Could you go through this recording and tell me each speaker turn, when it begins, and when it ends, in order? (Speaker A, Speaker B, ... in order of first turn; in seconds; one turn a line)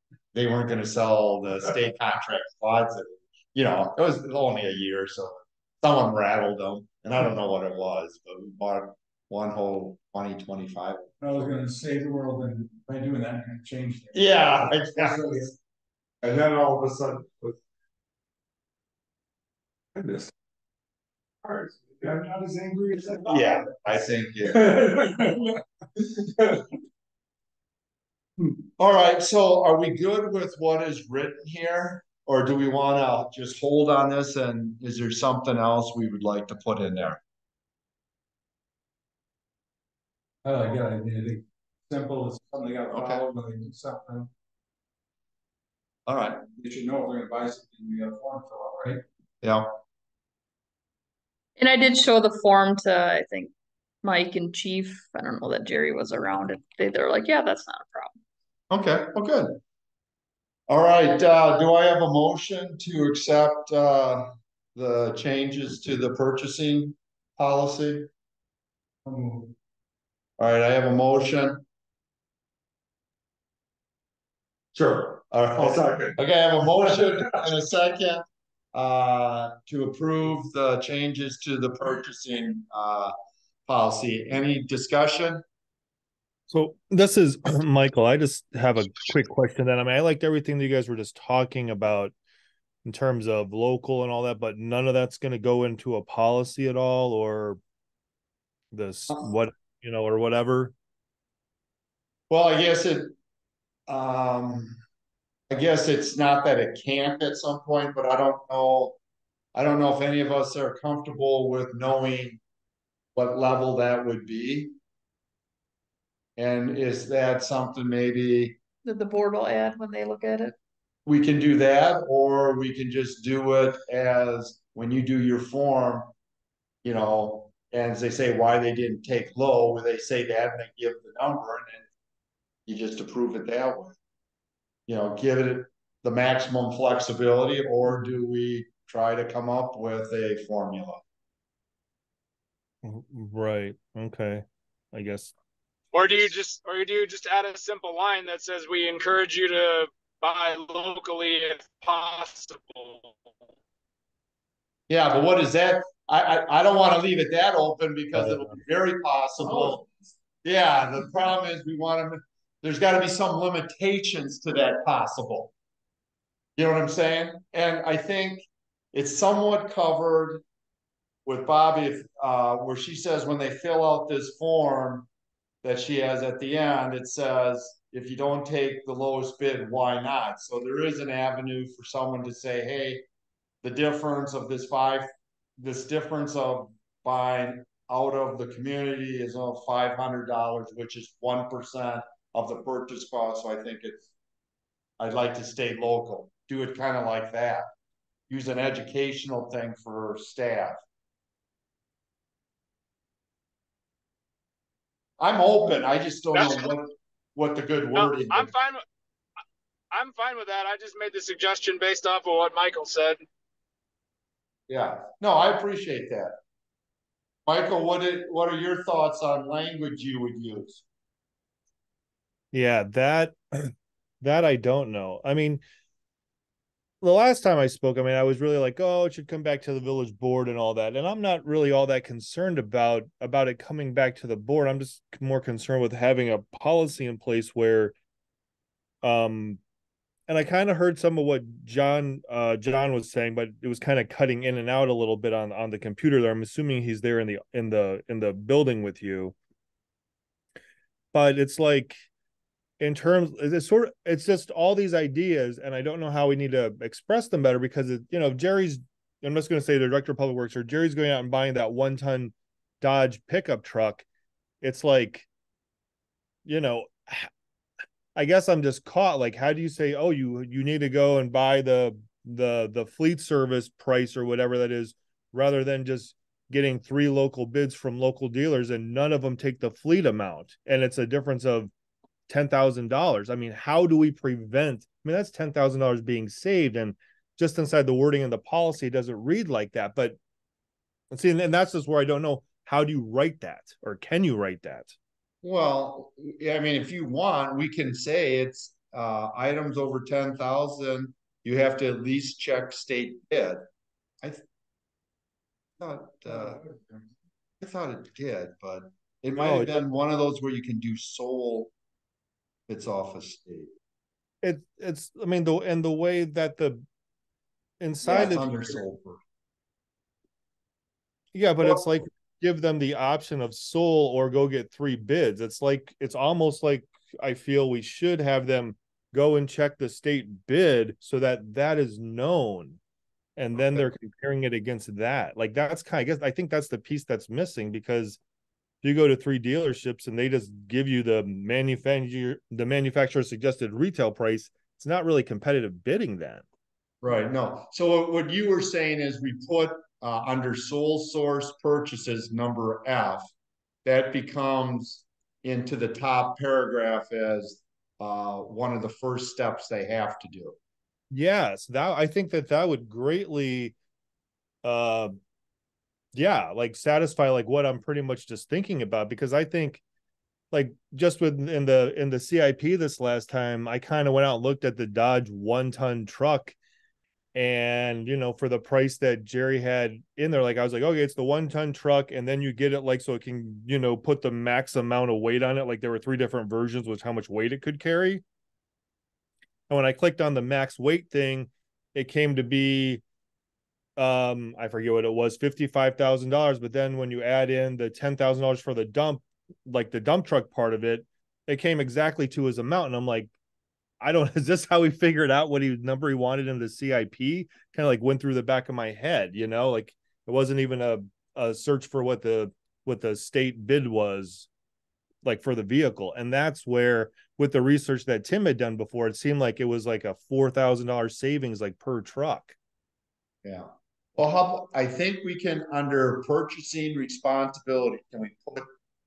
Speaker A: 0.3-11.4
Speaker B: 11.2-15.6
Speaker A: 14.1-15.4
Speaker C: 16.2-17.6
Speaker C: 19.9-20.3
Speaker C: 21.4-23.9
Speaker A: 23.2-24.8
Speaker C: 24.4-26.7
Speaker A: 28.8-37.2
Speaker B: 40.4-44.3
Speaker A: 42.9-43.2
Speaker A: 46.1-46.4
Speaker B: 46.5-49.0
Speaker A: 49.4-49.8
Speaker D: 51.6-58.2
Speaker A: 58.7-59.6
Speaker A: 60.7-68.1
Speaker B: 69.0-69.5
Speaker A: 70.4-71.6
Speaker C: 74.7-76.2
Speaker A: 75.3-83.1
Speaker C: 76.8-77.5
Speaker A: 83.7-85.4
Speaker E: 86.5-92.1
Speaker E: 92.8-97.6
Speaker E: 98.7-100.7
Speaker A: 102.3-103.1
Speaker A: 103.9-104.8
Speaker A: 105.5-109.0
Speaker A: 109.5-112.4
Speaker A: 113.2-114.7
Speaker A: 116.4-118.6
Speaker D: 118.8-120.5
Speaker A: 121.1-126.1
Speaker A: 126.8-131.8
Speaker A: 132.7-134.0
Speaker A: 134.9-141.0
Speaker E: 142.8-145.3
Speaker F: 145.9-153.1
Speaker A: 154.9-159.8
Speaker A: 160.4-165.5
Speaker A: 166.6-170.4
Speaker A: 171.2-175.1
Speaker A: 175.6-183.0
Speaker A: 183.6-194.1
Speaker A: 195.0-197.7
Speaker A: 198.3-200.8
Speaker A: 205.2-208.5
Speaker F: 206.3-206.7
Speaker F: 207.9-208.8
Speaker F: 209.9-213.2
Speaker A: 214.7-216.3
Speaker A: 217.5-220.8
Speaker E: 222.5-225.6
Speaker E: 227.0-237.9
Speaker E: 239.0-239.6
Speaker E: 240.3-249.3
Speaker E: 251.1-252.0
Speaker E: 252.8-264.1
Speaker E: 264.6-265.3
Speaker E: 266.4-267.3
Speaker E: 268.1-281.7
Speaker E: 282.3-290.2
Speaker E: 291.1-295.0
Speaker A: 295.4-303.6
Speaker A: 305.8-306.6
Speaker B: 306.6-307.0
Speaker A: 307.6-311.7
Speaker E: 309.4-309.8
Speaker A: 312.7-313.7
Speaker E: 314.4-316.8
Speaker E: 317.8-318.8
Speaker A: 318.0-319.2
Speaker E: 321.3-332.8
Speaker E: 333.4-338.2
Speaker E: 338.8-346.4
Speaker A: 347.0-353.3
Speaker A: 353.9-360.6
Speaker E: 361.1-363.8
Speaker E: 364.6-365.2
Speaker E: 366.1-369.8
Speaker E: 370.5-376.6
Speaker E: 377.4-388.2
Speaker E: 389.7-393.0
Speaker E: 394.0-403.3
Speaker E: 404.0-414.5
Speaker E: 415.2-422.6
Speaker A: 423.4-428.7